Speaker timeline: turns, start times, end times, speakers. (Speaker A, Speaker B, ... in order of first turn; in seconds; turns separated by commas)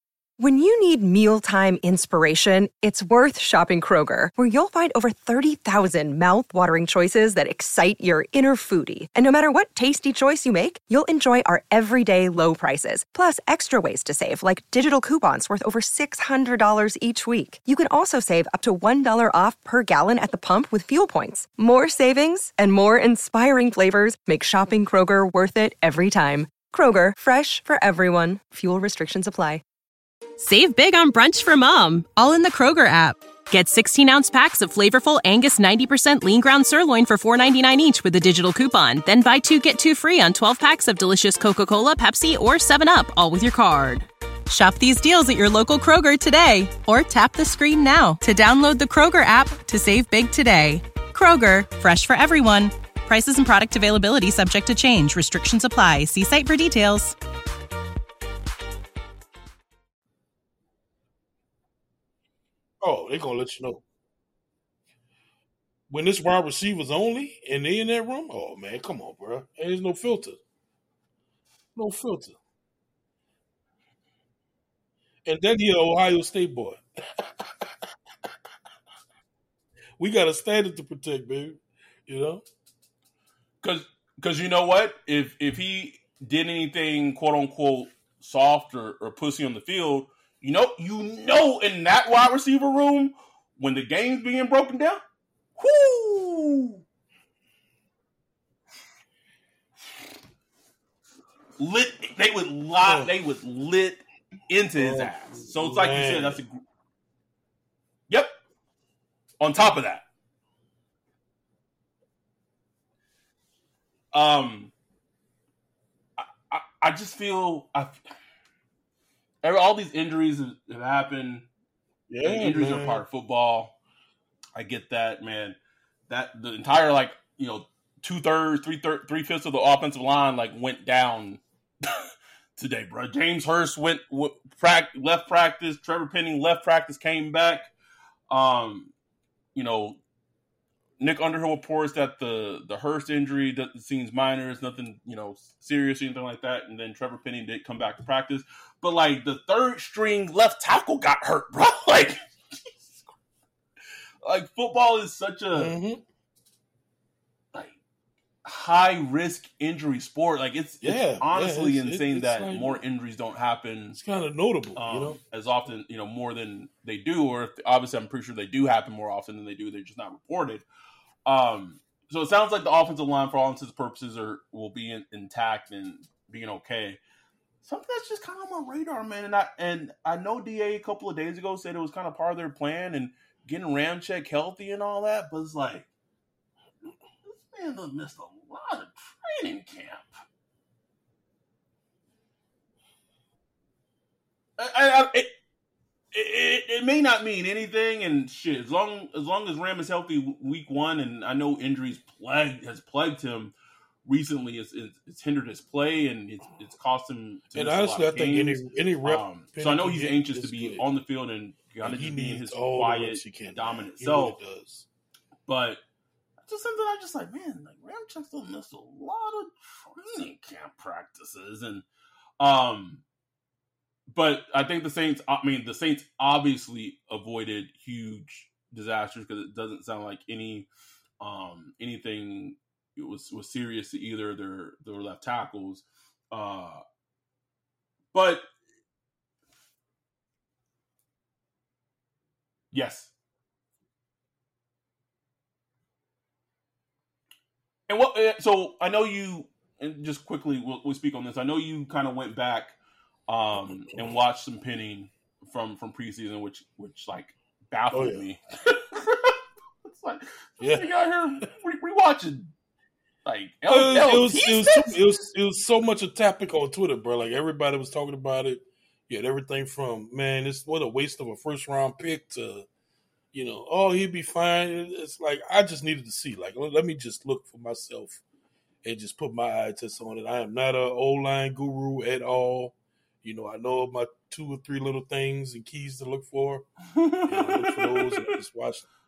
Speaker A: 0.4-29.6, Speaker B: 30.4-57.1, Speaker C: 62.8-63.8, Speaker C: 65.9-70.4, Speaker C: 71.8-72.4, Speaker C: 75.2-77.7, Speaker C: 80.0-82.4, Speaker D: 83.6-95.0, Speaker D: 95.6-96.8, Speaker D: 101.6-106.6, Speaker C: 102.8-103.1, Speaker C: 104.8-106.4, Speaker D: 109.4-110.0, Speaker D: 114.1-114.7, Speaker D: 116.2-118.0, Speaker D: 119.4-121.5, Speaker C: 122.1-123.0, Speaker D: 122.2-123.8, Speaker D: 124.6-125.6, Speaker D: 126.1-132.0, Speaker D: 132.6-137.7, Speaker D: 138.3-138.9, Speaker D: 139.6-140.0, Speaker D: 141.0-152.2, Speaker D: 152.7-153.1, Speaker D: 154.2-155.8, Speaker C: 155.5-156.0, Speaker D: 158.4-164.0, Speaker C: 160.8-162.8, Speaker C: 163.9-165.2, Speaker D: 164.8-170.7, Speaker D: 171.3-177.0, Speaker D: 177.6-185.9, Speaker D: 187.2-190.1, Speaker D: 194.6-195.3, Speaker D: 196.1-203.6, Speaker D: 204.1-214.4, Speaker C: 207.6-210.9, Speaker C: 211.8-214.9, Speaker D: 215.5-215.8, Speaker D: 216.4-221.8, Speaker D: 222.4-223.0, Speaker D: 224.1-230.7, Speaker D: 231.2-236.8, Speaker D: 238.1-238.5, Speaker D: 242.7-243.1, Speaker D: 247.9-252.8, Speaker D: 253.3-262.5, Speaker C: 253.7-254.2, Speaker C: 257.9-258.2, Speaker C: 260.6-260.9, Speaker D: 263.2-265.0, Speaker C: 263.7-272.7, Speaker C: 273.3-278.2, Speaker C: 278.8-286.7, Speaker D: 286.9-288.3, Speaker C: 287.3-288.9